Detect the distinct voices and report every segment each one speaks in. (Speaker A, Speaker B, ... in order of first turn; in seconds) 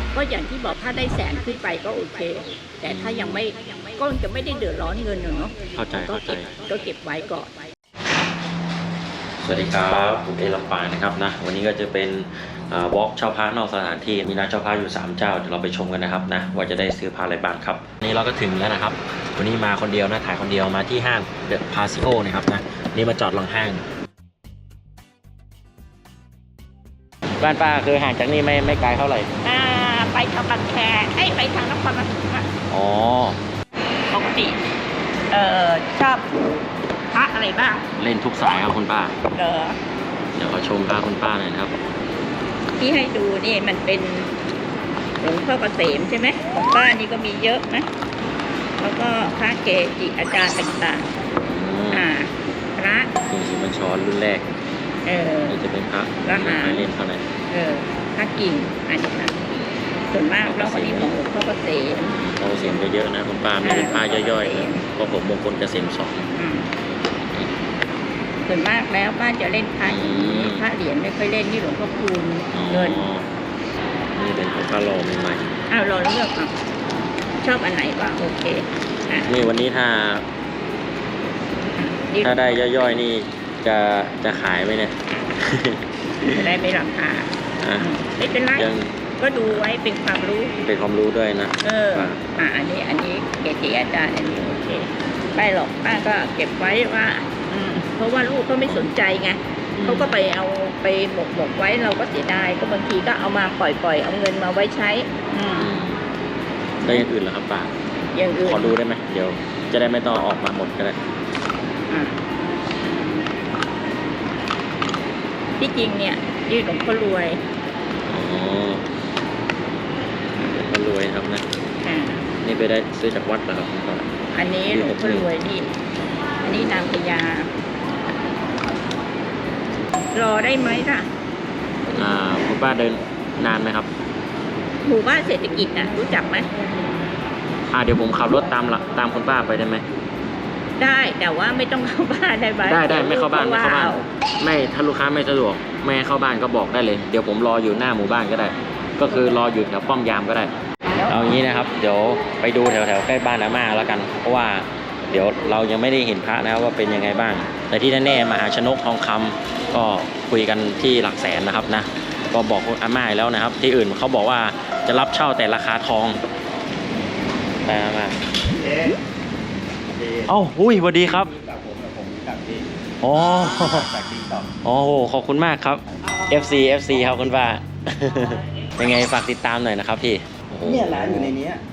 Speaker A: 0.1-7.5, 29.4-32.5, 34.1-34.6, 35.3-36.3, 37.1-37.9, 39.3-39.8, 42.8-44.3, 45.2-47.9, 48.8-51.1, 51.9-53.1, 55.0-55.6, 56.2-56.9, 57.5-59.5, 60.1-62.2, 63.6-64.8, 66.3-66.7, 68.4-73.0, 75.7-76.5, 77.4-79.3, 81.8-82.4, 86.2-90.6, 91.6-105.7, 108.1-108.8, 111.9-112.2, 112.8-113.3, 115.6-117.4, 121.8-122.3, 124.3-125.7, 126.4-127.5, 130.1-131.1, 134.8-136.5, 140.8-144.1, 150.9-151.3
Speaker B: 2.9-3.5, 5.8-6.5, 9.4-23.8, 27.4-29.3, 32.7-33.4, 38.0-39.1, 40.4-41.8, 51.4-52.1, 53.3-54.5, 55.5-57.2, 60.4-61.1, 62.2-66.3, 69.8-70.7, 72.5-73.3, 74.2-75.6, 79.3-80.3, 82.2-86.5, 87.6-87.9, 88.5-89.6, 90.6-92.2, 99.8-100.1, 105.5-106.0, 106.8-107.7, 108.4-111.0, 118.1-118.9, 120.4-121.5, 122.4-124.1, 124.7-125.3, 131.9-133.9, 137.7-139.8, 142.6-150.5, 151.1-166.2, 167.7-168.2, 170.3-171.3, 173.0-173.9, 174.6-181.4
Speaker C: 168.6-169.0, 170.0-170.3, 171.1-172.7, 173.4-174.5, 180.7-181.6